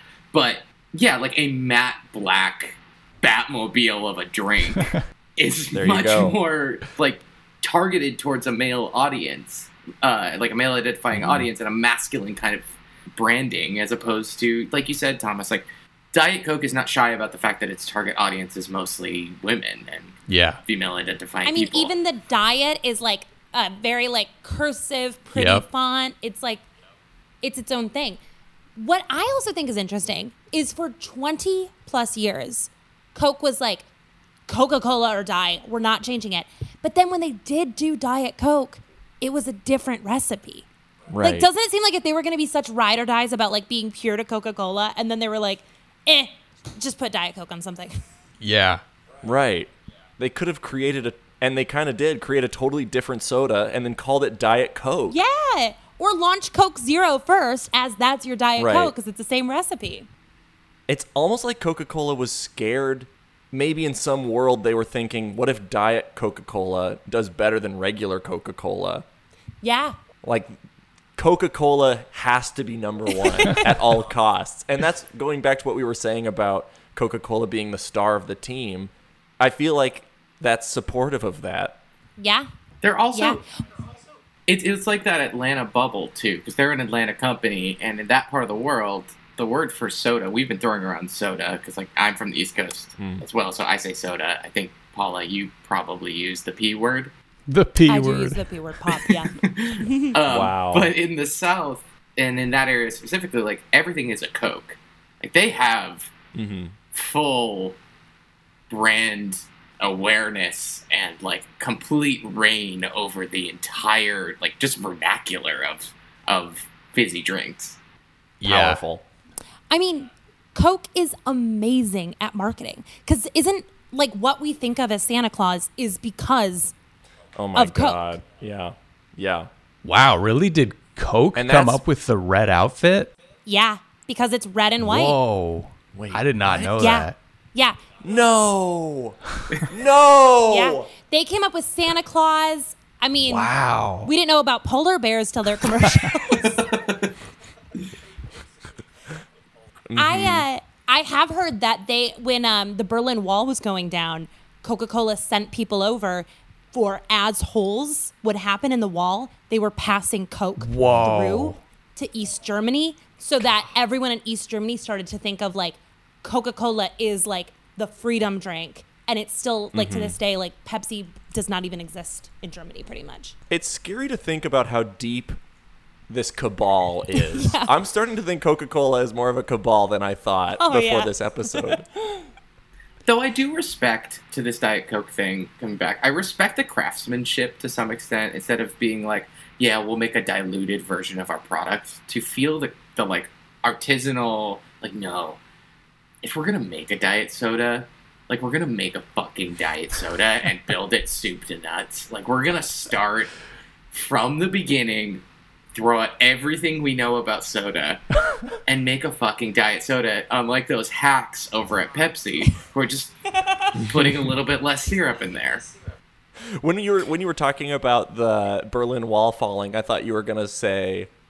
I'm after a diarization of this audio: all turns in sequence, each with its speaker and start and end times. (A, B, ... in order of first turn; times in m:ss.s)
0:00.3-0:20.2 A
0:05.7-0:06.4 B
0:11.1-0:11.5 B
0:20.3-0:20.6 C
0:20.7-0:21.9 A
0:21.4-0:26.6 D
0:25.3-0:25.6 C
0:27.4-0:28.2 D
0:28.8-0:33.9 D
0:34.5-0:40.7 D
0:41.1-0:41.5 B
0:41.2-0:48.0 D
0:48.4-0:48.8 C
0:49.2-0:55.2 B
0:55.1-1:00.1 D
0:58.6-0:58.9 B
1:00.9-1:09.0 B
1:09.6-1:10.0 D
1:10.2-1:10.5 B
1:11.2-1:21.8 B
1:13.4-1:13.7 D
1:22.2-1:22.5 D
1:22.8-1:23.4 A
1:23.1-1:23.4 D
1:24.5-1:37.1 A
1:33.0-1:33.2 B
1:37.5-1:38.4 C
1:37.9-1:40.2 D
1:39.3-1:46.1 A
1:40.3-1:40.9 B
1:46.3-1:46.8 B
1:46.9-1:47.8 A
1:48.7-1:57.8 A
1:58.4-1:58.8 C
1:58.4-1:59.0 B
1:59.7-2:06.7 D
2:07.4-2:09.5 B
2:07.6-2:08.2 D
2:09.8-2:13.1 C
2:11.4-2:11.8 B
2:13.5-2:15.2 D
2:14.8-2:17.2 C
2:15.9-2:16.8 B
2:16.8-2:17.8 D
2:18.0-2:20.9 B
2:20.5-2:23.5 D
2:23.2-2:24.1 C
2:24.0-2:26.7 D
2:26.4-2:27.1 A
2:29.9-2:30.5 B
2:30.0-2:53.4 D
2:40.6-2:41.6 C
2:49.7-2:50.2 B
2:53.5-2:55.4 B
2:56.1-3:01.8 B
2:57.2-2:57.7 D
3:00.6-3:01.8 D
3:03.0-3:15.4 A
3:16.2-3:23.3 A
3:23.9-3:25.2 A
3:25.7-3:33.2 A
3:33.7-3:35.7 A
3:33.8-3:34.3 B
3:36.4-3:41.1 B